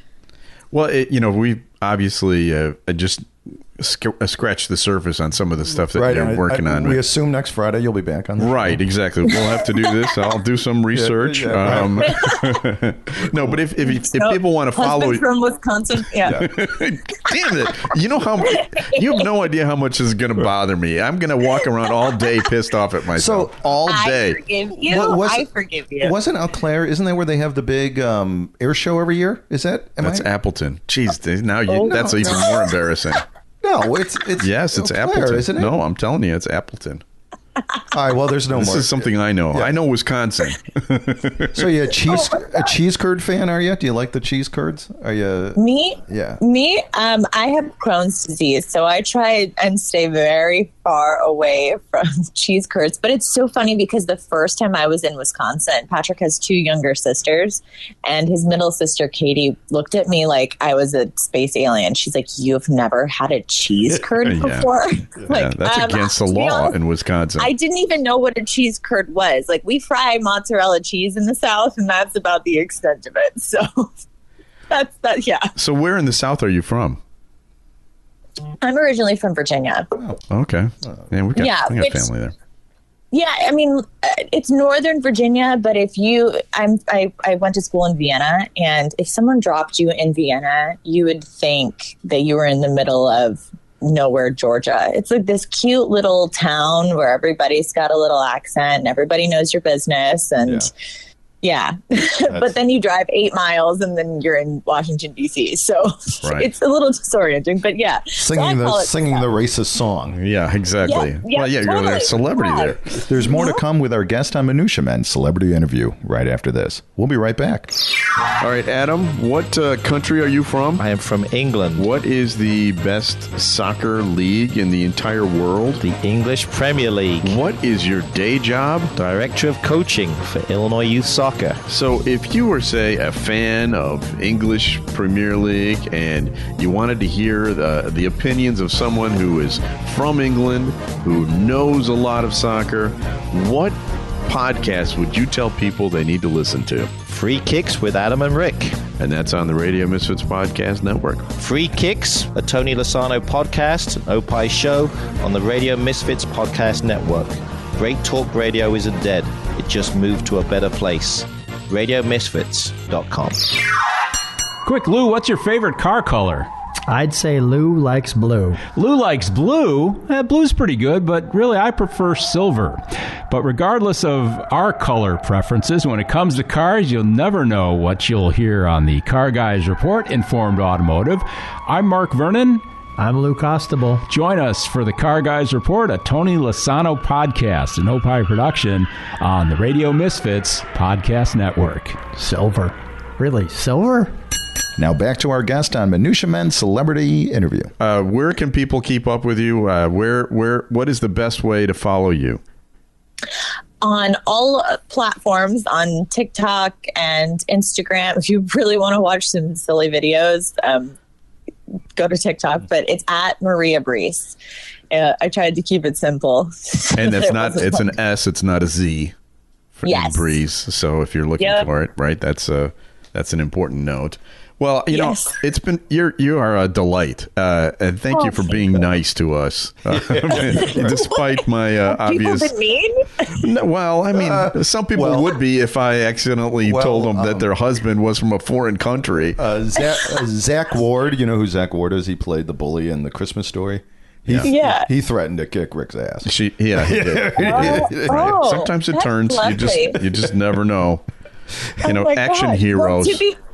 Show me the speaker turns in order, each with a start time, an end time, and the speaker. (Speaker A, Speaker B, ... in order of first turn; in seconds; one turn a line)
Speaker A: 0.7-7.0
Speaker B: 6.0-8.8
Speaker A: 8.4-15.2
Speaker B: 10.9-12.2
Speaker C: 12.0-12.4
Speaker B: 13.2-13.6
Speaker C: 13.9-16.4
Speaker B: 16.2-16.6
Speaker A: 16.3-24.4
Speaker C: 18.6-19.0
Speaker B: 23.1-24.1
Speaker C: 23.9-26.1
Speaker B: 24.9-25.5
Speaker B: 26.0-30.3
Speaker A: 30.0-33.2
Speaker C: 31.7-32.5
Speaker B: 31.8-32.5
Speaker B: 33.6-35.8
Speaker A: 34.4-37.0
Speaker B: 37.9-39.8
Speaker A: 38.5-41.6
Speaker B: 41.5-46.4
Speaker C: 42.1-42.7
Speaker C: 45.6-66.8
Speaker A: 64.2-64.7
Speaker A: 65.3-67.5
Speaker C: 67.4-73.9
Speaker C: 74.7-75.5
Speaker A: 75.6-77.0
Speaker C: 78.6-79.9
Speaker A: 80.3-82.3
Speaker B: 80.8-81.1
Speaker C: 81.4-82.1
Speaker C: 83.1-100.7
Speaker C: 101.4-109.2
Speaker B: 102.3-102.5
Speaker A: 106.2-106.5
Speaker B: 108.2-110.2
Speaker A: 110.2-112.9
Speaker C: 110.8-112.8
Speaker B: 113.1-117.7
Speaker C: 113.3-113.6
Speaker A: 118.4-120.8
Speaker D: 120.8-121.9
Speaker A: 121.8-125.8
Speaker D: 125.8-127.4
Speaker A: 127.2-128.9
Speaker D: 129.0-131.6
Speaker A: 131.7-146.9
Speaker D: 147.1-148.8
Speaker A: 149.0-151.3
Speaker D: 151.4-163.5
Speaker E: 164.6-166.5
Speaker F: 166.9-168.6
Speaker E: 168.7-182.6
Speaker F: 183.0-184.0
Speaker E: 184.1-192.1
Speaker F: 192.1-194.1
Speaker B: 194.8-197.7
Speaker A: 197.8-202.4
Speaker C: 203.8-210.9
Speaker C: 212.0-214.4
Speaker C: 214.9-217.9
Speaker A: 216.9-219.2
Speaker A: 219.8-232.5
Speaker C: 219.8-220.4
Speaker C: 221.4-221.7
Speaker C: 224.9-225.3
Speaker C: 228.1-228.7
Speaker B: 229.9-230.9
Speaker C: 230.3-231.2
Speaker C: 231.9-233.3
Speaker A: 233.4-239.4
Speaker B: 234.1-235.3
Speaker B: 236.7-237.5
Speaker B: 239.3-248.3
Speaker C: 244.5-244.9
Speaker A: 246.2-251.0
Speaker C: 247.4-250.0
Speaker A: 251.8-253.2
Speaker C: 251.8-253.4